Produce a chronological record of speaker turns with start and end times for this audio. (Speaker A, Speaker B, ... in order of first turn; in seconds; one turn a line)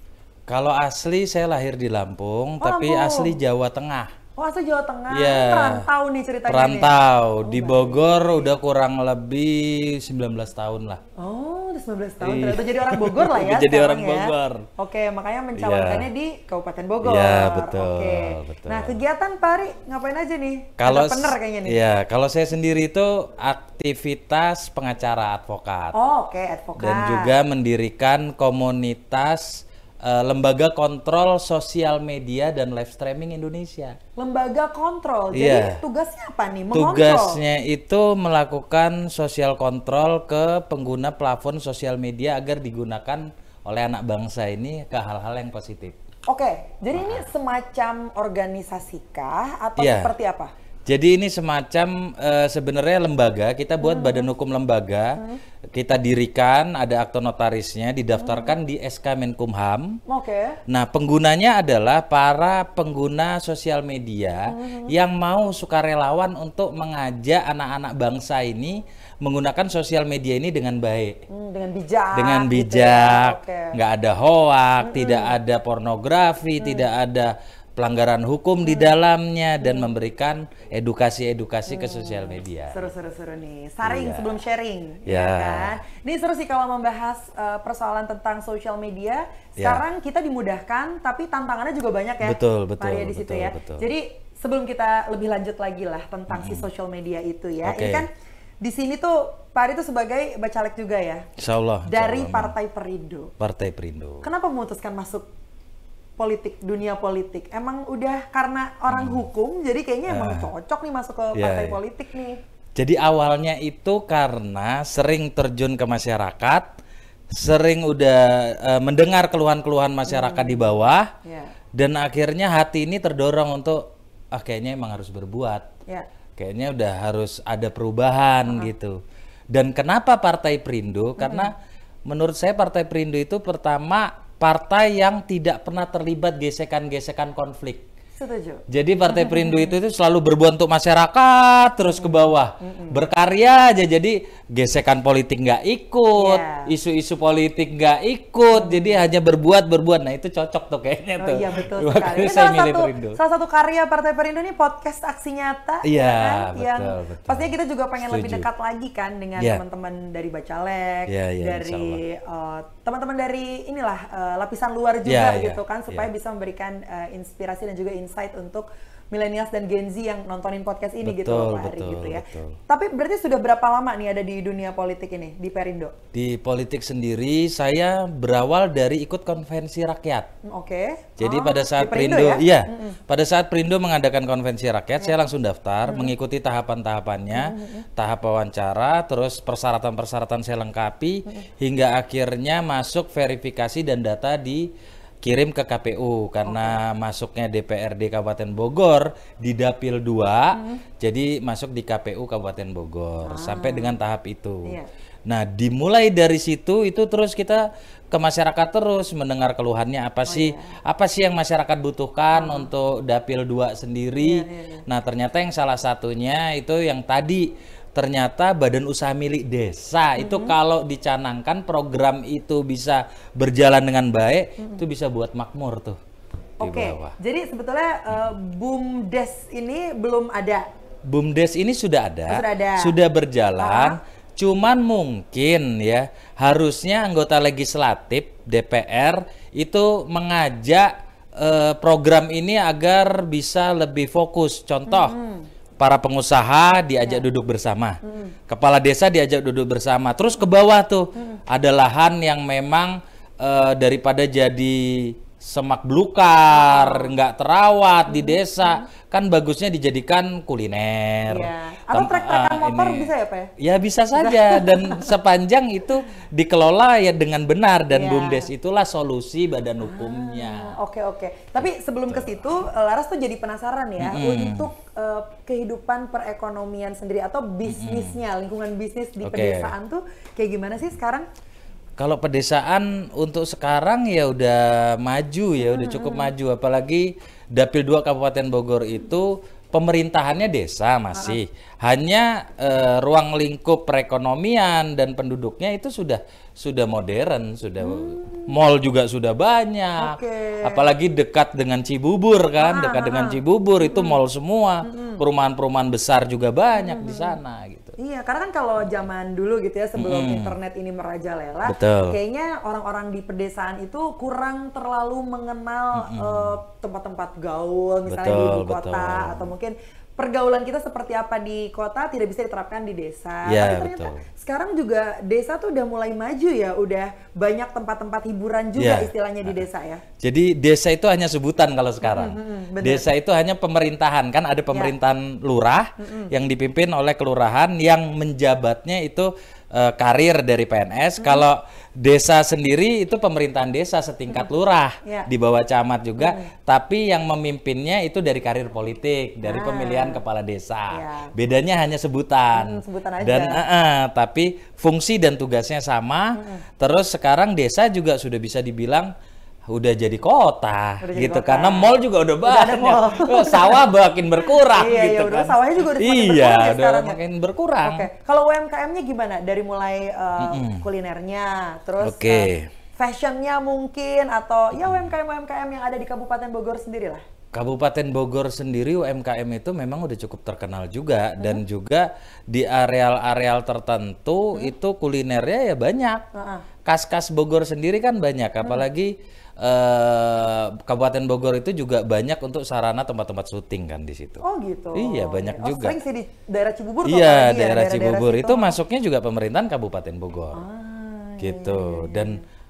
Speaker A: 0.5-4.1
Speaker B: 2.6-3.4
Speaker B: 4.4-8.5
Speaker A: 5.1-5.9
Speaker A: 6.5-11.0
Speaker B: 11.2-21.8
Speaker A: 12.2-14.7
Speaker A: 15.6-16.1
Speaker A: 17.0-19.0
Speaker A: 20.8-25.9
Speaker B: 25.9-27.3
Speaker A: 26.8-34.0
Speaker B: 34.2-37.4
Speaker A: 35.3-35.8
Speaker A: 36.7-46.0
Speaker B: 46.3-50.5
Speaker A: 46.9-47.2
Speaker A: 49.8-50.1
Speaker A: 50.9-55.2
Speaker B: 53.8-54.3
Speaker A: 55.7-60.0
Speaker B: 58.2-58.5
Speaker B: 60.1-60.6
Speaker A: 60.7-71.2
Speaker B: 64.5-64.9
Speaker B: 71.3-73.8
Speaker A: 72.1-82.9
Speaker B: 74.8-75.4
Speaker B: 76.6-76.9
Speaker B: 78.6-78.9
Speaker B: 79.6-79.9
Speaker B: 81.7-98.1
Speaker A: 83.8-84.4
Speaker A: 85.0-85.8
Speaker A: 89.6-89.8
Speaker A: 92.2-93.8
Speaker A: 96.3-96.7
Speaker A: 97.6-98.0
Speaker B: 98.6-101.3
Speaker A: 101.4-102.5
Speaker B: 101.9-103.3
Speaker A: 103.4-104.2
Speaker B: 104.2-105.3
Speaker B: 106.2-112.4
Speaker A: 108.9-109.3
Speaker A: 110.1-110.5
Speaker A: 111.3-111.8
Speaker A: 112.8-116.7
Speaker A: 117.3-121.1
Speaker B: 120.1-120.7
Speaker B: 121.2-121.5
Speaker A: 121.7-125.7
Speaker A: 126.4-129.0
Speaker A: 129.5-131.6
Speaker B: 131.2-131.5
Speaker A: 132.1-137.9
Speaker B: 138.2-139.7
Speaker A: 138.7-153.2
Speaker B: 141.9-143.0
Speaker B: 146.2-146.7
Speaker B: 148.5-149.0
Speaker B: 151.2-175.9
Speaker A: 155.8-158.5
Speaker A: 161.1-162.0
Speaker A: 165.1-166.1
Speaker A: 171.0-172.6
Speaker A: 176.1-180.3
Speaker B: 180.4-183.0
Speaker A: 181.2-194.7
Speaker B: 185.8-186.1
Speaker B: 187.3-187.8
Speaker A: 195.2-226.0
Speaker B: 196.4-196.8
Speaker B: 200.5-200.8
Speaker B: 203.2-204.0
Speaker B: 210.3-210.8
Speaker B: 212.3-212.7
Speaker B: 214.2-214.8
Speaker B: 220.2-220.5
Speaker B: 226.6-230.6
Speaker A: 226.6-227.1
Speaker A: 231.1-245.2
Speaker B: 232.3-232.9
Speaker B: 233.6-234.0
Speaker B: 244.9-245.5
Speaker A: 245.8-270.8
Speaker B: 248.0-248.3
Speaker B: 251.1-251.4
Speaker B: 256.5-257.1
Speaker B: 258.1-258.9
Speaker B: 261.3-263.5
Speaker B: 264.1-265.1
Speaker B: 267.9-268.5
Speaker B: 269.8-281.2
Speaker A: 274.0-274.7
Speaker A: 277.6-278.2
Speaker A: 279.2-279.7
Speaker A: 282.0-307.9
Speaker B: 285.6-286.3
Speaker B: 291.1-291.4
Speaker B: 297.8-298.5
Speaker B: 300.0-300.8
Speaker B: 302.6-304.2
Speaker B: 304.8-305.2
Speaker B: 306.8-307.4
Speaker B: 308.0-330.0
Speaker A: 309.9-310.6
Speaker A: 311.6-312.2
Speaker A: 315.9-316.6
Speaker A: 318.1-319.5
Speaker A: 323.4-324.2
Speaker A: 328.8-329.6
Speaker A: 330.2-359.1
Speaker B: 332.0-333.1
Speaker B: 336.0-336.3
Speaker B: 345.0-345.3
Speaker B: 346.2-346.5
Speaker B: 349.4-350.2
Speaker B: 350.9-351.3
Speaker B: 352.5-353.6
Speaker B: 356.3-356.6
Speaker A: 359.7-368.1
Speaker B: 361.0-363.8
Speaker B: 364.4-367.2
Speaker B: 367.8-377.2
Speaker A: 370.4-370.8
Speaker A: 372.0-372.7
Speaker A: 377.5-386.2
Speaker B: 386.3-386.6
Speaker A: 386.8-394.4
Speaker B: 388.6-388.9
Speaker B: 394.4-398.7
Speaker A: 394.9-396.0
Speaker A: 397.0-400.6
Speaker B: 400.5-402.4
Speaker A: 401.4-402.4